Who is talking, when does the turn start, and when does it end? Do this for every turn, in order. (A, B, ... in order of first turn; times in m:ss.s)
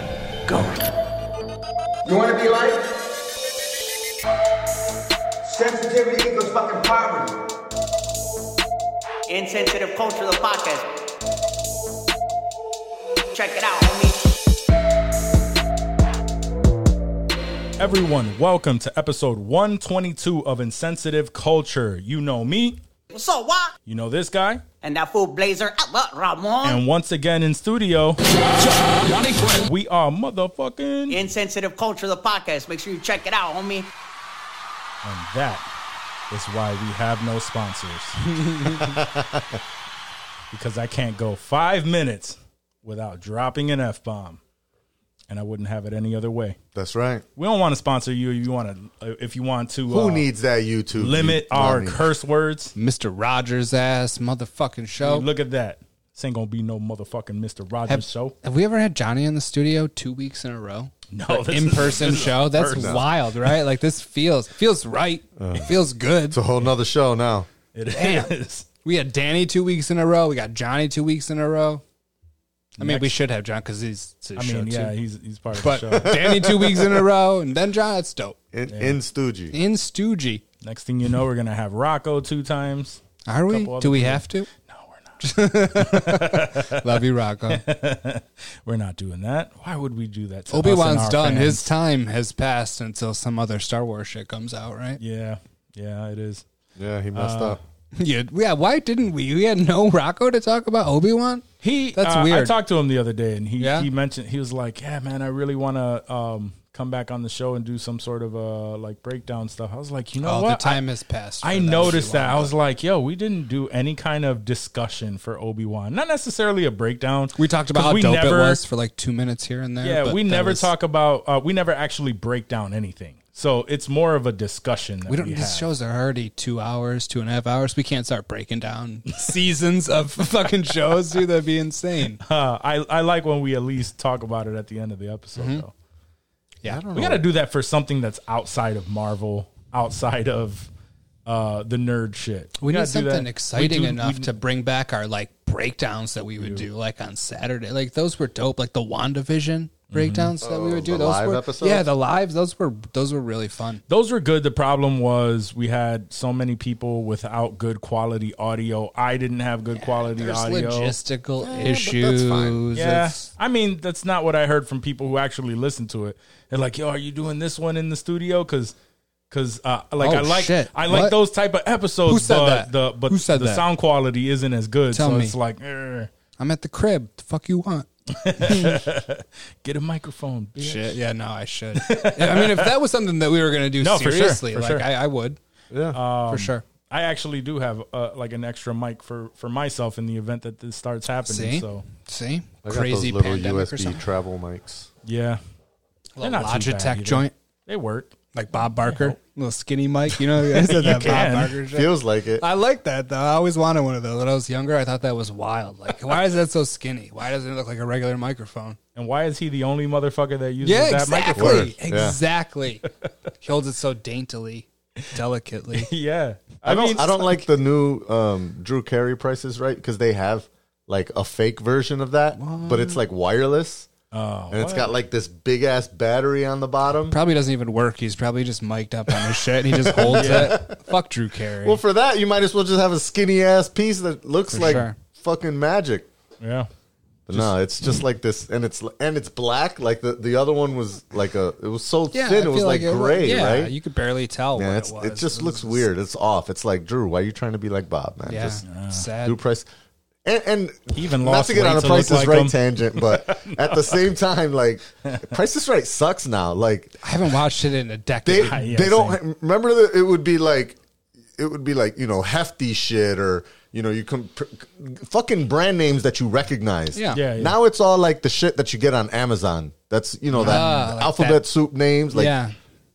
0:02.0-0:02.9 A
0:05.4-0:07.4 A
0:09.3-0:10.8 B
0:13.3-0:14.3 B
0:17.8-0:22.8 C
0:23.1-0:23.7 B
0:23.9-0:24.6 C
0:24.8-0:26.8 B
0:26.6-0:28.2 C
0:29.0-0:31.2 C
0:31.1-0:33.9 B
0:35.0-0:35.7 C
0:36.3-0:38.3 C
0:38.4-0:38.8 D
0:38.7-0:39.6 E
0:40.5-0:44.4 C
0:45.3-0:46.6 C
0:46.8-0:47.2 E
0:47.4-0:50.3 C
0:49.9-0:52.1 E
0:51.0-0:52.8 C
0:52.8-0:55.3 D
0:55.0-0:58.4 C
0:57.9-1:06.4 D
1:01.1-1:03.6 C
1:02.6-1:03.1 E
1:05.4-1:05.7 E
1:06.3-1:07.5 E
1:07.7-1:08.7 C
1:07.9-1:08.3 D
1:08.8-1:11.8 D
1:12.8-1:13.2 C
1:12.8-1:15.0 D
1:14.4-1:16.2 C
1:15.6-1:18.4 D
1:16.0-1:17.1 E
1:18.5-1:19.6 E
1:18.7-1:19.0 C
1:19.5-1:20.4 D
1:20.6-1:31.7 C
1:23.3-1:24.5 D
1:25.2-1:27.6 D
1:30.5-1:35.0 D
1:35.0-1:36.4 C
1:36.8-1:37.6 E
1:37.2-1:37.6 C
1:38.0-1:42.6 D
1:41.6-1:50.8 C
1:43.6-1:43.9 D
1:50.2-1:52.5 D
1:51.4-1:58.6 C
1:57.4-2:00.7 D
1:59.8-2:05.7 C
2:05.1-2:12.2 D
2:09.1-2:09.4 C
2:12.2-2:15.7 C
2:15.4-2:15.6 D
2:16.6-2:17.3 E
2:16.9-2:20.7 C
2:21.3-2:24.3 C
2:22.6-2:33.8 D
2:26.4-2:26.7 C
2:29.9-2:30.3 C
2:30.4-2:31.9 E
2:33.9-2:41.0 C
2:39.7-2:43.3 D
2:41.4-2:42.6 E
2:42.7-2:48.8 C
2:49.3-2:56.1 C
2:50.0-2:51.2 D
2:52.1-2:53.6 D
2:54.9-2:55.4 D
2:56.4-2:57.9 D
2:58.2-3:01.0 C
2:58.4-2:58.8 D
3:00.6-3:05.4 D
3:01.8-3:02.7 C
3:03.8-3:04.9 C
3:05.7-3:06.0 E
3:05.9-3:11.9 C
3:06.3-3:06.6 D
3:11.2-3:14.0 D
3:12.6-3:14.9 E
3:15.0-3:15.4 C
3:16.2-3:17.3 D
3:16.2-3:18.2 C
3:18.4-3:28.8 D
3:18.8-3:19.2 C
3:20.2-3:21.6 C
3:21.0-3:22.4 E
3:29.0-3:31.7 C
3:30.6-3:32.9 D
3:31.4-3:32.2 E
3:33.4-3:35.9 D
3:35.7-3:37.3 C
3:36.6-3:43.9 E
3:42.4-3:43.0 D
3:44.1-3:44.9 C
3:44.5-3:47.2 E
3:47.1-3:51.8 D
3:49.7-3:50.8 E
3:50.1-3:50.6 C
3:51.6-3:56.1 E
3:54.5-3:55.0 D
3:56.4-3:56.7 C
3:57.3-4:03.7 E
4:02.1-4:05.8 D
4:04.6-4:08.6 E
4:08.3-4:09.4 D
4:08.6-4:09.1 C
4:09.2-4:09.7 E
4:10.2-4:17.0 E
4:10.9-4:14.0 C
4:15.0-4:15.3 C
4:17.0-4:18.6 D
4:18.2-4:20.8 E
4:18.4-4:19.2 C
4:21.4-4:32.3 E
4:27.0-4:27.2 D
4:27.1-4:27.6 C
4:30.4-4:31.4 D
4:32.1-4:32.5 D